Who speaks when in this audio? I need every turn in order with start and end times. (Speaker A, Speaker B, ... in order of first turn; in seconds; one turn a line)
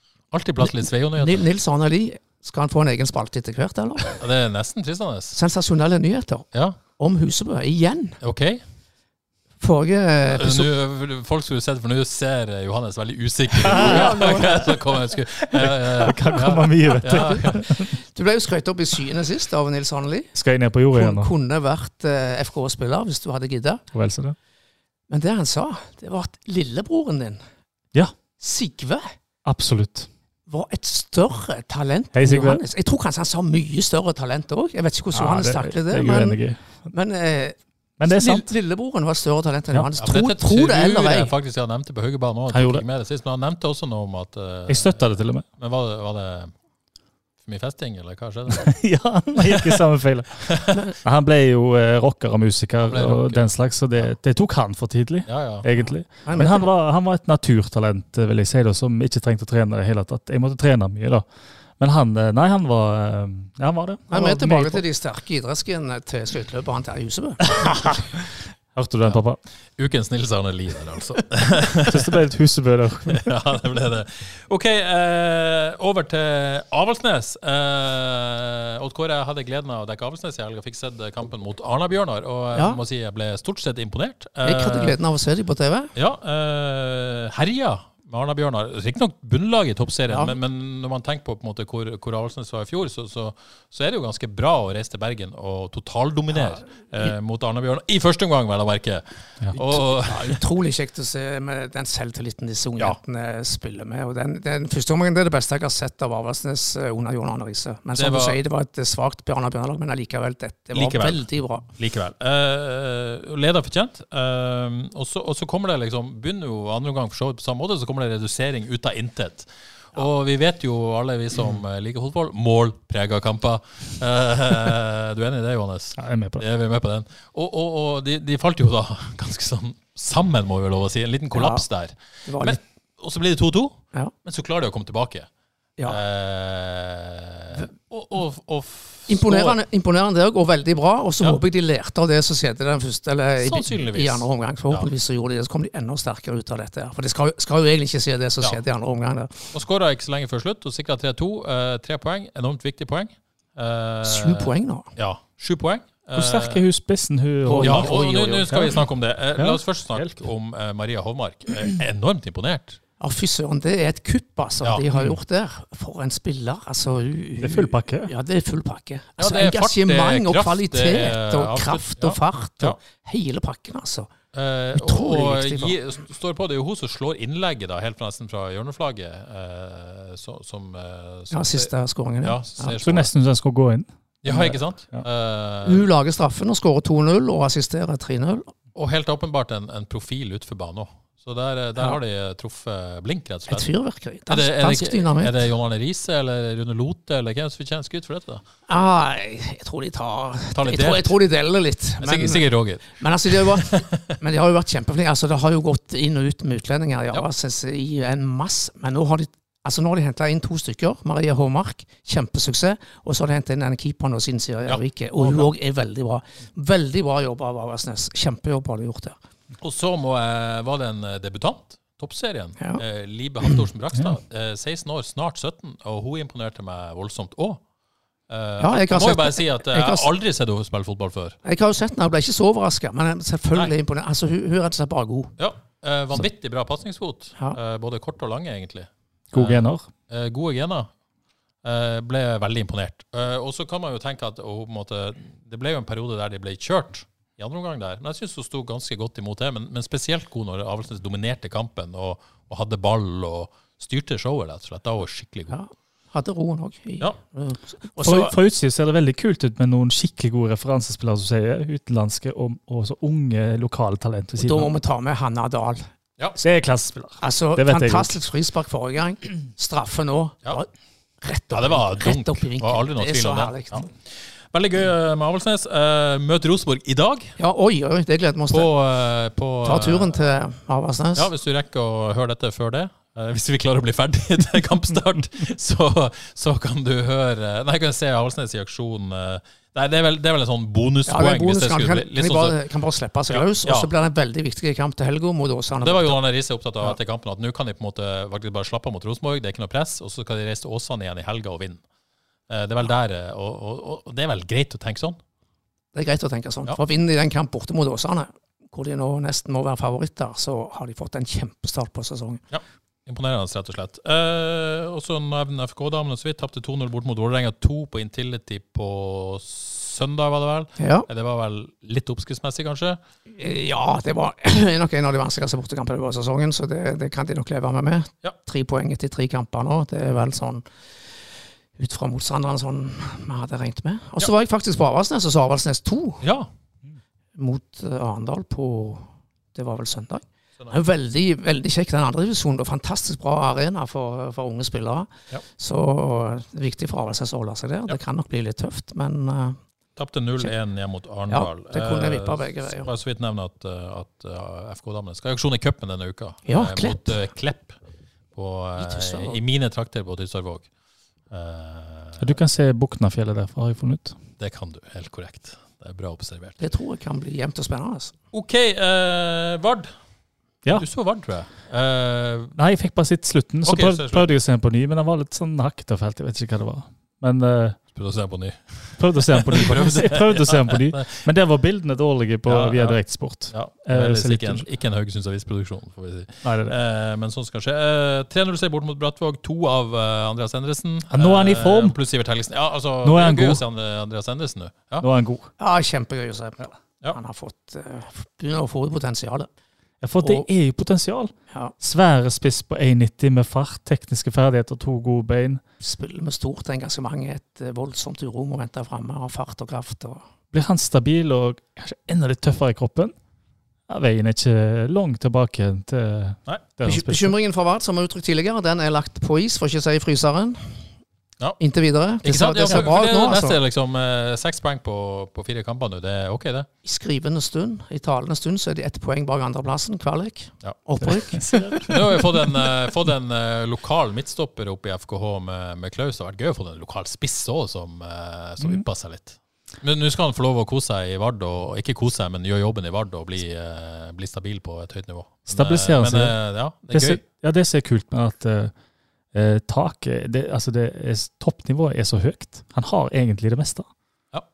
Speaker A: 0.3-1.5
Speaker B: 1.2-4.2
Speaker A: 4.2-5.4
Speaker B: 5.3-8.2
Speaker A: 6.5-6.8
Speaker A: 8.2-8.6
Speaker B: 9.6-10.7
Speaker A: 10.3-17.6
Speaker B: 13.6-14.8
Speaker C: 13.7-14.2
Speaker C: 15.6-17.9
Speaker B: 17.1-20.3
Speaker C: 20.3-21.3
Speaker B: 20.9-23.8
Speaker C: 23.9-24.4
Speaker B: 25.1-27.4
Speaker B: 28.4-29.1
Speaker C: 29.4-30.1
Speaker B: 30.5-41.3
Speaker C: 32.1-32.6
Speaker C: 35.1-36.6
Speaker C: 38.0-38.5
Speaker A: 40.0-45.0
Speaker C: 42.5-42.8
Speaker C: 44.7-45.5
Speaker A: 45.6-46.5
Speaker A: 47.4-48.7
Speaker C: 48.5-61.2
Speaker A: 49.5-49.8
Speaker A: 50.5-50.8
Speaker A: 52.8-53.5
Speaker A: 55.3-55.7
Speaker B: 56.2-56.7
Speaker C: 61.8-64.8
Speaker B: 64.1-67.6
Speaker C: 67.7-68.0
Speaker C: 68.8-69.4
Speaker A: 69.8-72.1
Speaker C: 71.9-73.2
Speaker A: 73.1-85.0
Speaker B: 82.5-82.8
Speaker B: 84.4-85.9
Speaker A: 86.0-100.4
Speaker B: 90.1-90.3
Speaker B: 99.7-111.7
Speaker A: 107.9-108.4
Speaker A: 110.7-111.2
Speaker A: 111.8-135.3
Speaker C: 126.0-126.4
Speaker B: 131.3-131.6
Speaker B: 132.3-132.6
Speaker A: 135.8-139.6
Speaker B: 139.1-149.4
Speaker A: 143.4-144.9
Speaker A: 149.5-156.6
Speaker B: 154.0-154.9
Speaker C: 156.1-158.8
Speaker B: 157.5-158.5
Speaker A: 157.6-162.8
Speaker C: 159.4-160.2
Speaker B: 163.0-174.1
Speaker A: 164.6-165.1
Speaker C: 167.4-168.1
Speaker A: 169.2-172.8
Speaker A: 174.3-181.7
Speaker B: 174.8-175.7
Speaker B: 181.3-182.8
Speaker A: 182.2-183.1
Speaker C: 182.8-185.1
Speaker A: 184.2-185.9
Speaker B: 185.6-188.5
Speaker A: 188.8-193.7
Speaker B: 193.5-195.3
Speaker A: 194.3-198.4
Speaker B: 198.7-219.2
Speaker A: 200.5-201.2
Speaker A: 202.0-204.1
Speaker A: 214.7-215.5
Speaker A: 219.6-227.6
Speaker A: 228.3-231.4
Speaker B: 228.6-230.1
Speaker B: 231.4-235.3
Speaker A: 235.4-240.9
Speaker C: 239.3-239.9
Speaker A: 241.6-255.6
Speaker B: 255.5-258.4
Speaker C: 258.0-264.7
Speaker B: 264.4-265.9
Speaker C: 266.4-268.2
Speaker B: 267.2-270.7
Speaker B: 271.2-273.9
Speaker A: 271.5-277.4
Speaker B: 277.4-278.7
Speaker A: 278.5-280.3
Speaker B: 279.6-281.3
Speaker A: 281.1-292.6
Speaker B: 291.1-296.2
Speaker A: 293.3-293.9
Speaker A: 295.8-301.8
Speaker A: 302.5-305.2
Speaker B: 305.9-312.4
Speaker A: 312.5-323.0
Speaker B: 320.8-321.1
Speaker B: 323.4-330.6
Speaker B: 331.8-336.2
Speaker A: 336.2-336.5
Speaker B: 337.4-349.6
Speaker A: 350.0-357.8
Speaker B: 351.3-352.9
Speaker B: 356.5-357.2
Speaker A: 358.3-360.7
Speaker B: 358.8-359.4
Speaker A: 361.3-362.4
Speaker C: 362.2-364.2
Speaker A: 364.4-366.6
Speaker B: 366.6-368.1
Speaker A: 368.3-369.9
Speaker A: 370.7-372.6
Speaker C: 372.6-377.8
Speaker A: 373.6-374.3
Speaker A: 377.9-381.3
Speaker C: 379.0-384.6
Speaker A: 382.5-395.1
Speaker C: 386.4-386.7
Speaker C: 391.1-392.0
Speaker C: 393.0-393.6
Speaker C: 395.0-395.5
Speaker B: 395.6-399.5
Speaker C: 400.0-405.6
Speaker B: 405.8-410.2
Speaker C: 410.5-413.1
Speaker C: 413.9-417.3
Speaker B: 416.8-420.6
Speaker B: 421.6-423.6
Speaker A: 422.2-426.7
Speaker B: 426.8-431.9
Speaker C: 431.0-431.9
Speaker A: 431.9-447.2
Speaker C: 445.5-446.4
Speaker C: 446.9-448.7
Speaker C: 449.3-453.9